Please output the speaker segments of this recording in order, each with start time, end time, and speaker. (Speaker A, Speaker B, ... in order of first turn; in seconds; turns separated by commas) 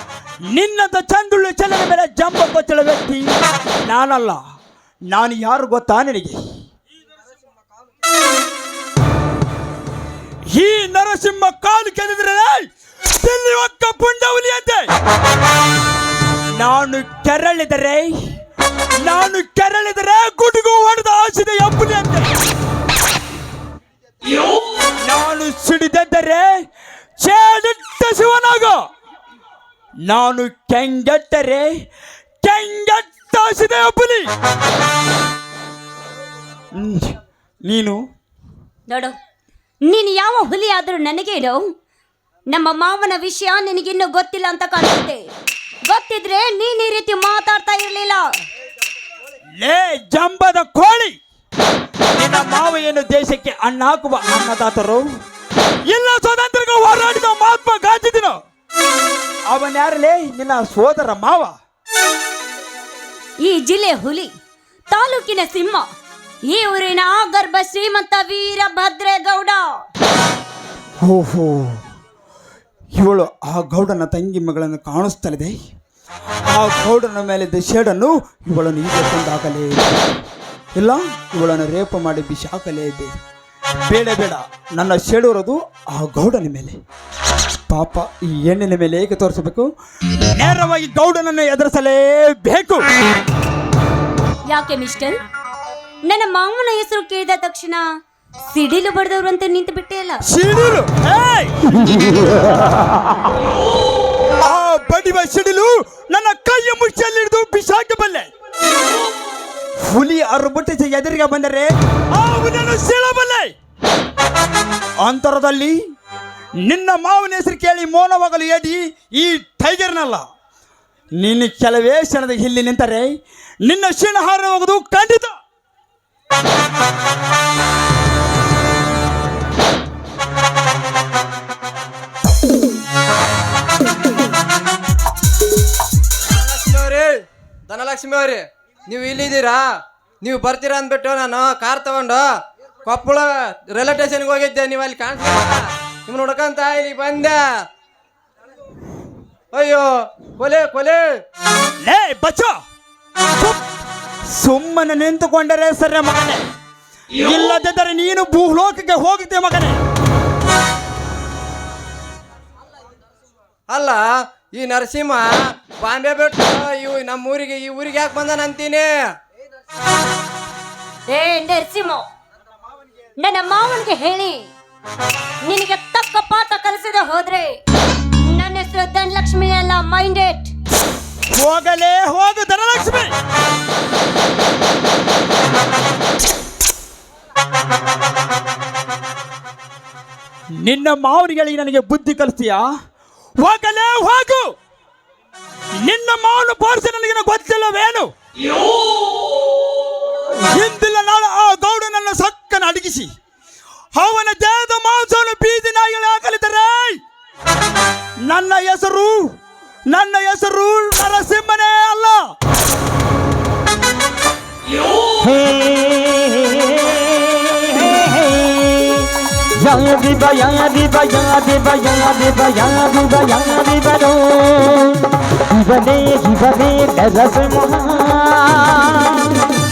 Speaker A: 0.5-4.4, Speaker A: 5.1-6.4, Speaker A: 10.5-12.7, Speaker A: 13.2-14.9, Speaker A: 16.6-18.3, Speaker A: 19.0-22.3, Speaker A: 25.0-26.5, Speaker A: 27.2-28.8, Speaker A: 30.1-31.7, Speaker A: 32.4-34.3, Speaker A: 36.8-37.1, Speaker A: 37.7-38.0, Speaker B: 38.9-39.1, Speaker B: 39.9-41.7, Speaker B: 42.5-45.2, Speaker B: 45.9-48.2, Speaker A: 49.6-51.2, Speaker A: 52.2-55.0, Speaker A: 55.9-58.4, Speaker A: 59.5-61.5, Speaker B: 63.4-64.3, Speaker B: 64.9-65.9, Speaker B: 66.5-69.8, Speaker A: 71.0-71.8, Speaker A: 73.0-75.6, Speaker A: 76.5-80.1, Speaker A: 80.8-83.2, Speaker A: 83.9-86.8, Speaker A: 87.7-92.9, Speaker B: 94.5-95.2, Speaker B: 96.0-97.9, Speaker B: 98.5-100.2, Speaker A: 100.3-102.4, Speaker A: 104.4-108.3, Speaker A: 109.8-113.5, Speaker A: 115.0-115.8, Speaker A: 116.6-120.2, Speaker A: 121.2-123.1, Speaker A: 123.6-125.4, Speaker C: 136.3-139.7, Speaker C: 140.2-142.3, Speaker C: 142.8-147.5, Speaker C: 149.5-151.0, Speaker A: 151.8-152.6, Speaker A: 154.3-156.4, Speaker A: 157.2-159.8, Speaker C: 163.7-169.0, Speaker B: 171.1-172.0, Speaker B: 173.2-174.5, Speaker B: 175.4-177.6, Speaker B: 178.2-180.5, Speaker A: 181.3-183.1, Speaker A: 190.6-192.6, Speaker A: 193.4-194.5, Speaker A: 195.8-198.1, Speaker A: 200.4-203.1, Speaker A: 203.9-207.0, Speaker A: 208.3-209.3, Speaker A: 209.9-212.2, Speaker D: 215.2-229.4